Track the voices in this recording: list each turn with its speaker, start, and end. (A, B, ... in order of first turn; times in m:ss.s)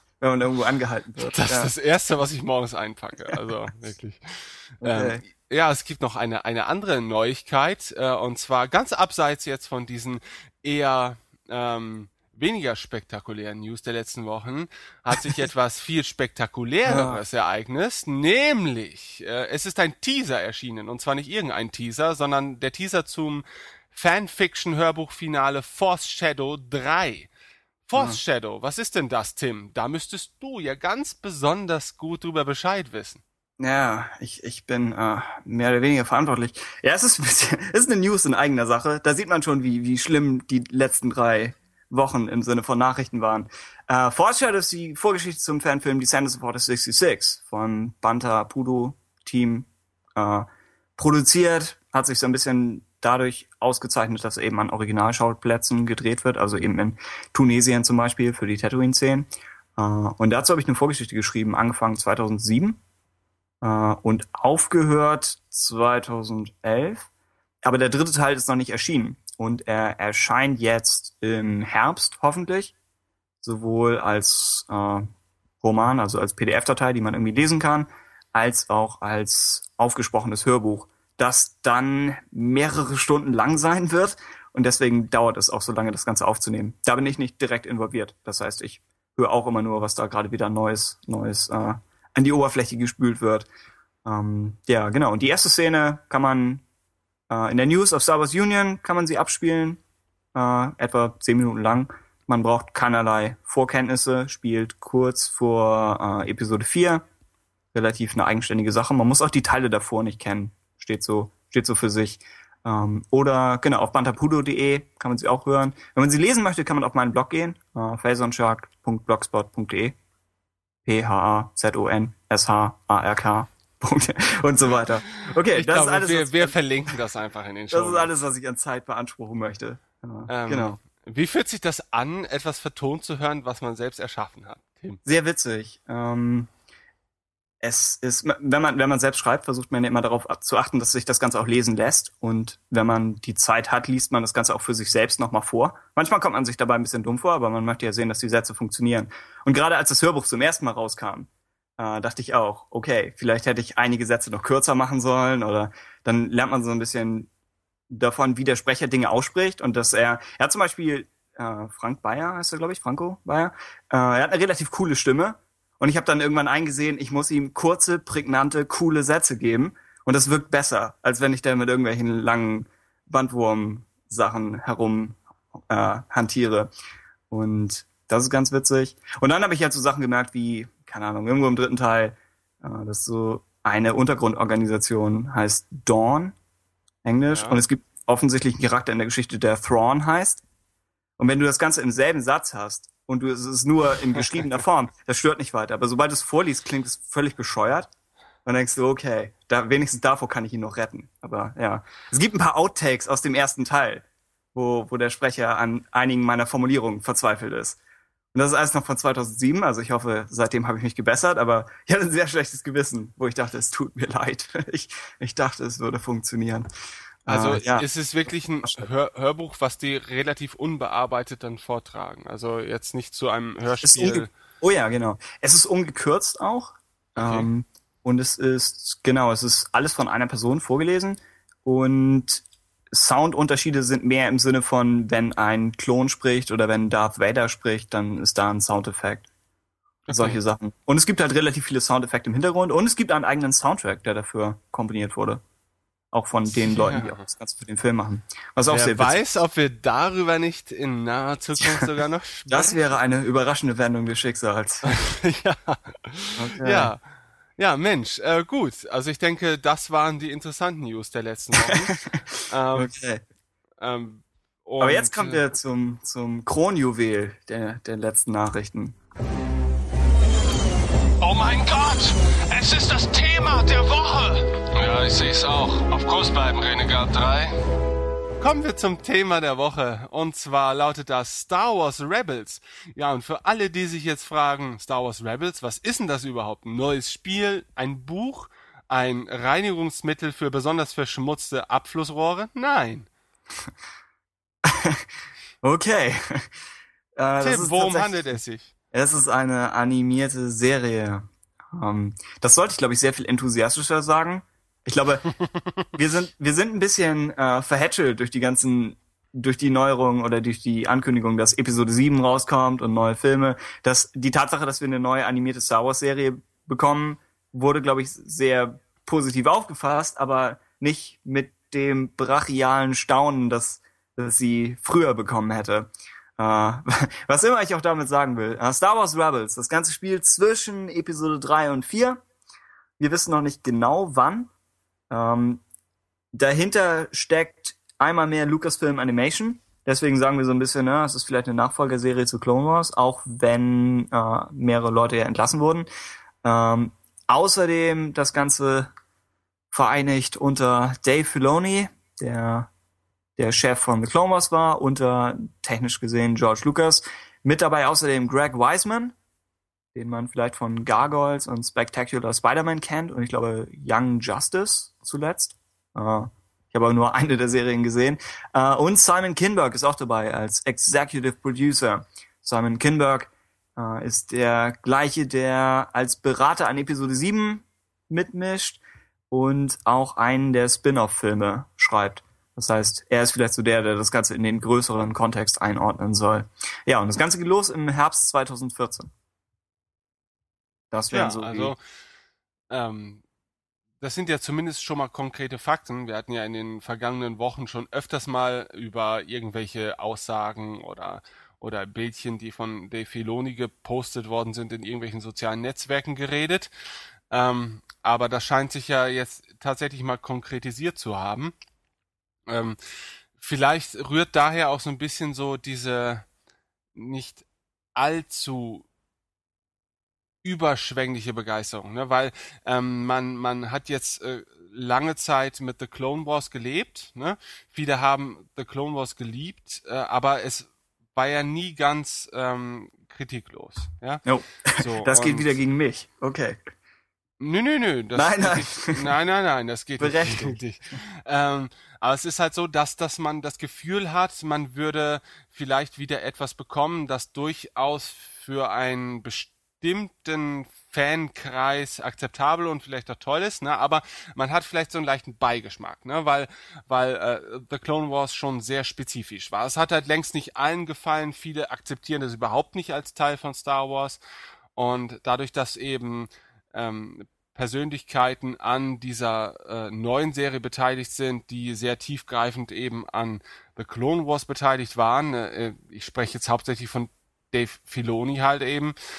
0:00.2-0:01.7 A
0:01.2-0:27.3 B
0:04.8-0:05.2 A
0:16.8-0:17.2 A
0:27.8-0:33.2 B
0:27.9-0:28.2 A
0:33.6-1:02.8 A
1:03.6-1:07.1 A
1:07.6-1:12.7 A
1:13.4-1:15.1 A
1:15.6-1:33.4 A
1:34.0-1:36.6 A
1:37.3-1:39.8 A
1:40.3-1:47.0 A
1:47.7-1:59.9 A
2:00.8-2:06.6 A
2:04.7-2:08.1 B
2:07.7-2:10.8 A
2:10.3-2:15.0 B
2:15.0-2:16.5 A
2:17.6-2:37.3 A
2:37.9-2:56.7 A
2:57.3-3:06.3 A
3:07.0-3:10.4 A
3:07.3-3:07.6 B
3:11.2-3:17.9 A
3:18.4-3:27.8 A
3:28.3-3:36.7 A
3:37.2-3:37.8 A
3:37.3-3:44.3 B
3:43.8-3:59.2 A
3:47.2-3:47.5 B
4:00.1-4:00.4 B
4:00.1-4:05.4 A
4:06.1-4:09.2 A
4:06.5-4:07.2 B
4:08.7-4:12.8 B
4:12.5-4:14.9 A
4:14.8-4:17.0 B
4:16.4-4:16.9 A
4:17.6-4:22.0 B
4:21.7-4:22.2 A
4:22.5-4:22.9 B
4:22.7-4:23.2 A
4:23.8-4:25.4 B
4:24.8-4:29.0 A
4:31.2-4:34.4 C
4:34.8-4:35.1 B
4:35.0-4:37.5 C
4:38.4-4:53.1 B
4:54.6-4:55.0 A
4:55.6-4:56.5 A
4:57.2-4:58.2 A
4:57.4-4:58.7 B
4:58.9-5:05.3 A
5:05.9-5:32.2 A
5:33.0-5:34.5 A
5:35.1-5:35.6 A
5:36.3-5:45.9 A
5:46.4-5:48.9 A
5:49.7-5:52.7 A
5:53.4-5:59.1 A
5:59.9-6:29.1 A
6:30.9-6:31.7 A
6:31.1-6:31.8 B
6:32.7-6:33.2 B
6:34.0-6:46.7 B
6:47.3-6:51.5 B
6:52.5-6:52.8 B
6:53.4-6:56.2 B
6:56.9-6:57.4 B
6:58.0-6:58.8 B
7:00.4-7:14.2 B
7:14.2-7:16.6 A
7:14.7-7:15.6 B
7:17.4-7:44.2 B
7:18.1-7:19.0 A
7:20.0-7:20.6 A
7:44.8-7:58.9 B